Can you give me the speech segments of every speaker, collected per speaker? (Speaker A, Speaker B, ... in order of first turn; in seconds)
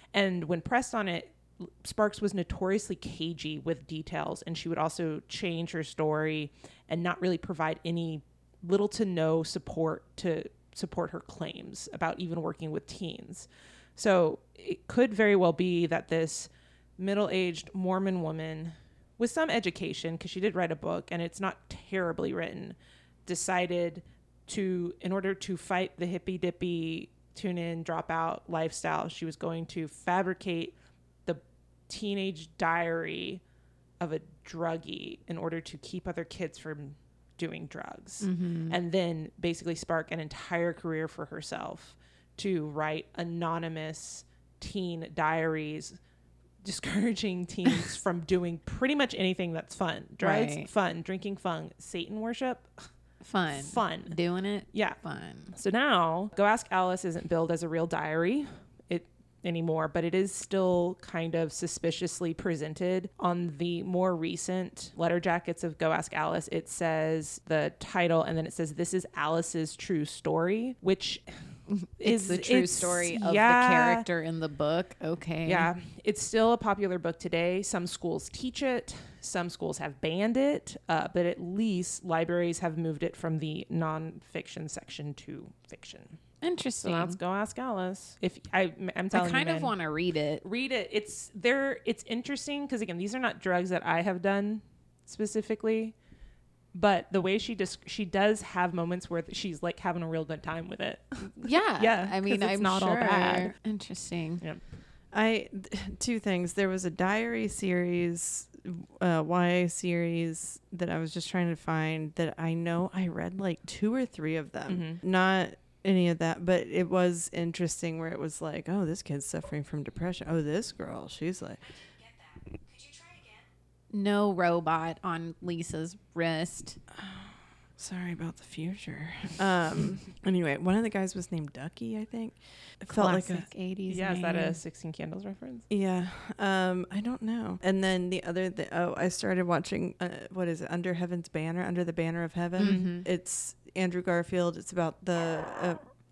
Speaker A: 0.1-30.7, 31.3-33.4, 34.0-46.0, 46.6-52.7, 53.5-54.2, 54.7-55.0, 55.5-71.2, 72.0-74.0, 75.5-86.2, 86.8-89.8, 90.4-95.9, 96.7-103.5, 114.7-115.0, 133.9-135.7
Speaker B: 38.2-38.8, 50.2-50.7, 53.2-55.5, 71.7-75.7, 86.4-87.2, 89.1-90.4, 101.4-104.4, 123.9-126.8, 132.9-134.6, 142.6-143.1
Speaker C: 105.1-121.7, 127.0-133.5, 135.7-145.8